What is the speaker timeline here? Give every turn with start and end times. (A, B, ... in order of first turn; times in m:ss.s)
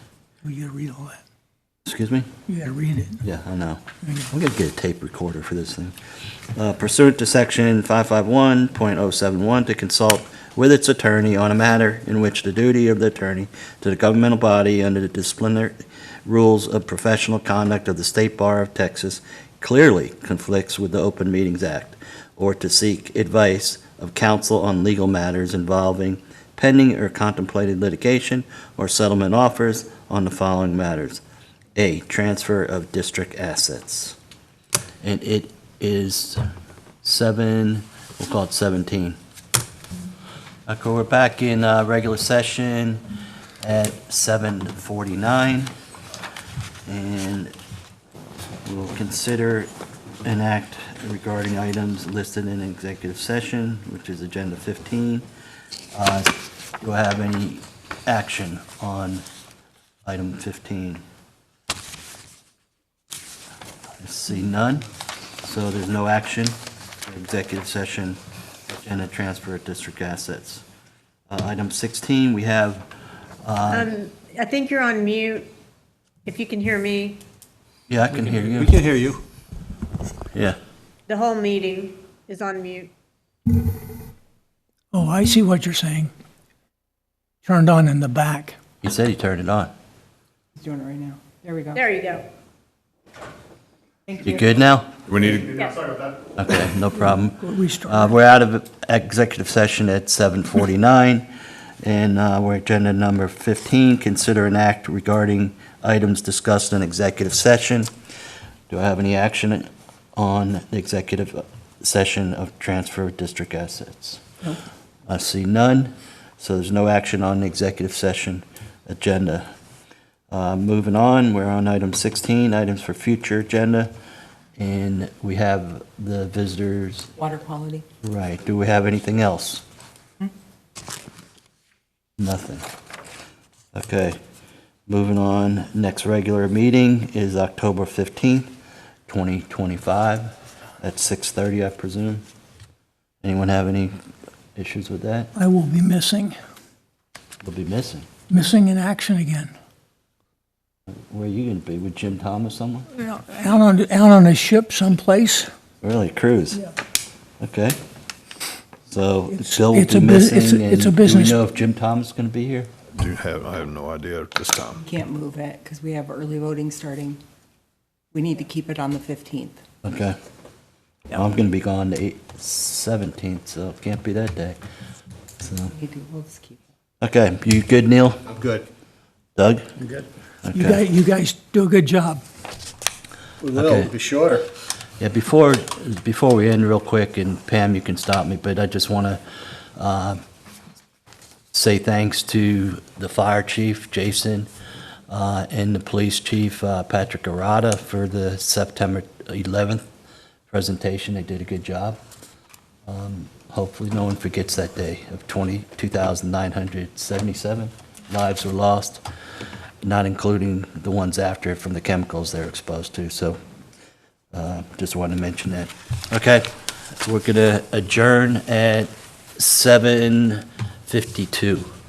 0:00.4-0:01.2 A
0:01.9-0:02.3 B
0:02.5-0:03.2 A
0:03.2-0:06.0 B
0:06.5-0:31.2 B
0:31.8-0:34.2 B
0:35.0-0:36.4 B
0:37.0-0:39.2 B
0:40.7-0:43.0 B
0:43.6-0:45.7 B
0:46.9-0:47.5 B
0:48.6-0:49.7 B
0:50.2-0:55.3 B
0:55.9-0:59.2 B
1:00.0-1:01.0 B
1:04.0-1:04.9 B
1:05.4-1:10.6 B
1:11.3-1:12.9 B
1:13.4-1:13.9 B
1:13.7-1:15.5 C
1:16.3-1:17.2 C
1:17.9-1:18.9 B
1:18.3-1:19.2 D
1:21.1-1:22.9 C
1:24.9-1:26.1 A
1:27.4-1:28.6 A
1:28.8-1:29.7 B
1:30.6-1:31.9 E
1:31.8-1:32.3 C
1:34.1-1:34.4 E
1:34.2-1:35.0 B
1:35.2-1:35.5 F
1:35.4-1:35.9 C
1:36.4-1:41.3 B
1:37.4-1:38.1 A
1:41.8-1:47.9 B
1:48.7-1:54.3 B
1:55.1-1:59.5 B
2:00.3-2:03.9 B
2:04.6-2:07.1 B
2:07.2-2:07.8 E
2:08.0-2:09.6 B
2:12.2-2:12.7 B
2:13.7-2:14.2 B
2:14.9-2:18.5 B
2:19.1-2:22.2 B
2:23.2-2:24.0 B
2:24.6-2:25.3 B
2:25.4-2:26.4 A
2:27.4-2:28.1 B
2:28.3-2:29.5 A
2:30.9-2:32.9 B
2:33.0-2:35.5 A
2:35.8-2:36.7 B
2:37.4-2:37.8 B
2:38.9-2:42.7 B
2:39.4-2:41.4 A
2:42.9-2:44.8 F
2:44.8-2:47.2 E
2:48.1-2:49.6 E
2:49.8-2:50.2 B
2:51.1-2:54.6 B
2:55.4-2:55.7 B
2:55.7-2:56.6 E
2:57.0-2:58.4 B
2:58.3-2:58.6 D
2:59.4-2:59.7 B
3:00.4-3:00.8 B
3:00.5-3:02.2 A
3:03.4-3:04.4 D
3:03.5-3:04.0 B
3:05.0-3:09.2 B
3:09.8-3:10.2 B
3:11.5-3:14.5 B
3:15.1-3:19.8 B
3:20.5-3:22.0 B
3:22.9-3:29.0 B
3:29.8-3:33.4 B
3:34.3-3:36.5 B
3:37.0-3:41.7 B